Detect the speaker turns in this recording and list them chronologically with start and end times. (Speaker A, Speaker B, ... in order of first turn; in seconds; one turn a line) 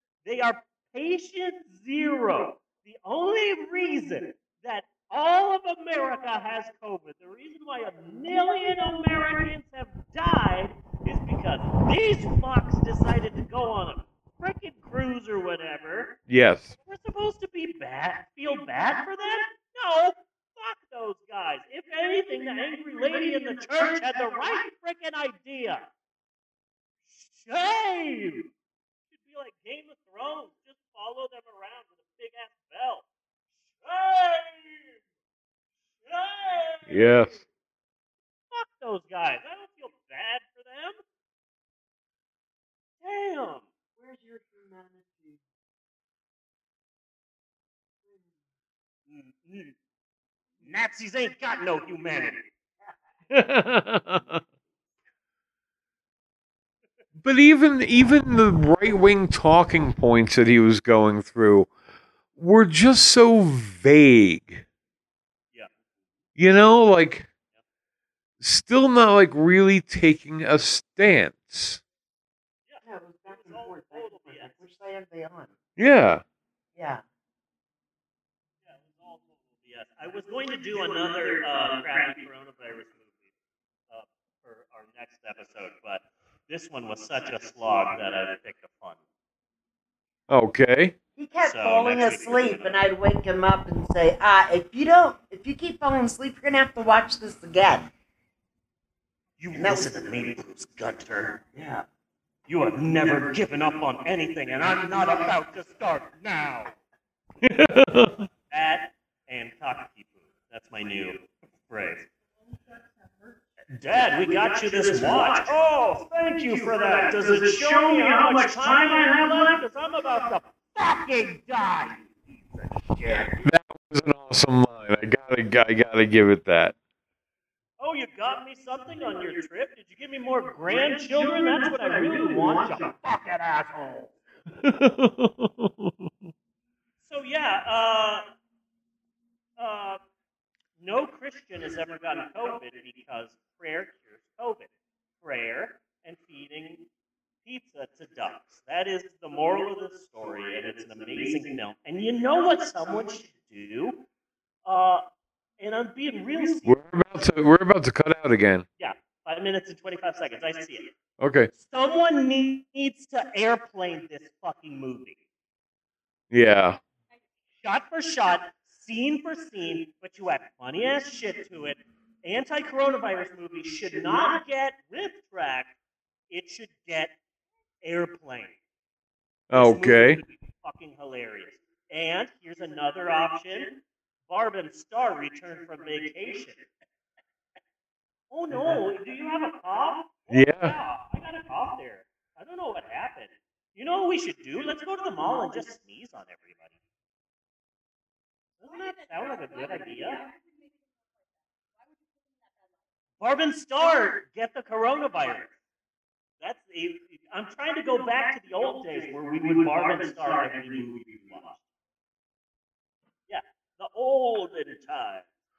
Speaker A: 0.2-16.2
Speaker B: 16.3-16.7
Speaker A: 16.7-25.9
Speaker A: 27.1-28.5
Speaker A: 29.1-33.0
Speaker A: 33.7-34.9
Speaker A: 36.0-37.3
Speaker B: 36.9-37.4
Speaker A: 38.5-41.0
Speaker A: 43.0-43.6
Speaker C: 44.0-45.4
Speaker A: 49.1-49.7
Speaker A: 50.6-52.5
Speaker B: 53.3-54.4
Speaker B: 57.1-61.7
Speaker B: 62.4-64.6
Speaker B: 66.3-67.3
Speaker B: 68.4-71.8
Speaker A: 72.7-74.6
Speaker C: 72.8-75.5
Speaker B: 75.8-76.2
Speaker C: 76.8-77.0
Speaker A: 78.6-83.2
Speaker A: 83.9-89.0
Speaker B: 90.3-90.9
Speaker C: 91.2-97.9
Speaker A: 91.5-92.8
Speaker A: 99.4-101.4
Speaker C: 99.5-99.9
Speaker C: 101.5-101.8
Speaker A: 102.5-106.7
Speaker B: 107.4-108.2
Speaker A: 108.5-112.1
Speaker A: 113.7-122.1
Speaker A: 122.7-123.3
Speaker B: 123.4-126.7
Speaker A: 127.8-134.1
Speaker B: 134.6-135.9
Speaker A: 137.0-138.2
Speaker A: 139.6-140.0
Speaker A: 140.8-146.8
Speaker A: 147.4-154.0
Speaker A: 154.6-155.0
Speaker A: 155.6-156.8
Speaker B: 156.6-158.7
Speaker A: 158.8-160.9
Speaker B: 161.2-161.5
Speaker A: 161.5-165.2
Speaker B: 166.3-166.8
Speaker A: 167.6-175.7
Speaker A: 176.3-177.1
Speaker A: 177.8-178.6
Speaker B: 179.5-180.2
Speaker A: 179.5-186.7
Speaker A: 188.3-196.8
Speaker B: 190.3-190.8
Speaker A: 198.6-200.3
Speaker A: 203.2-205.5
Speaker A: 206.4-211.6
Speaker A: 213.3-215.3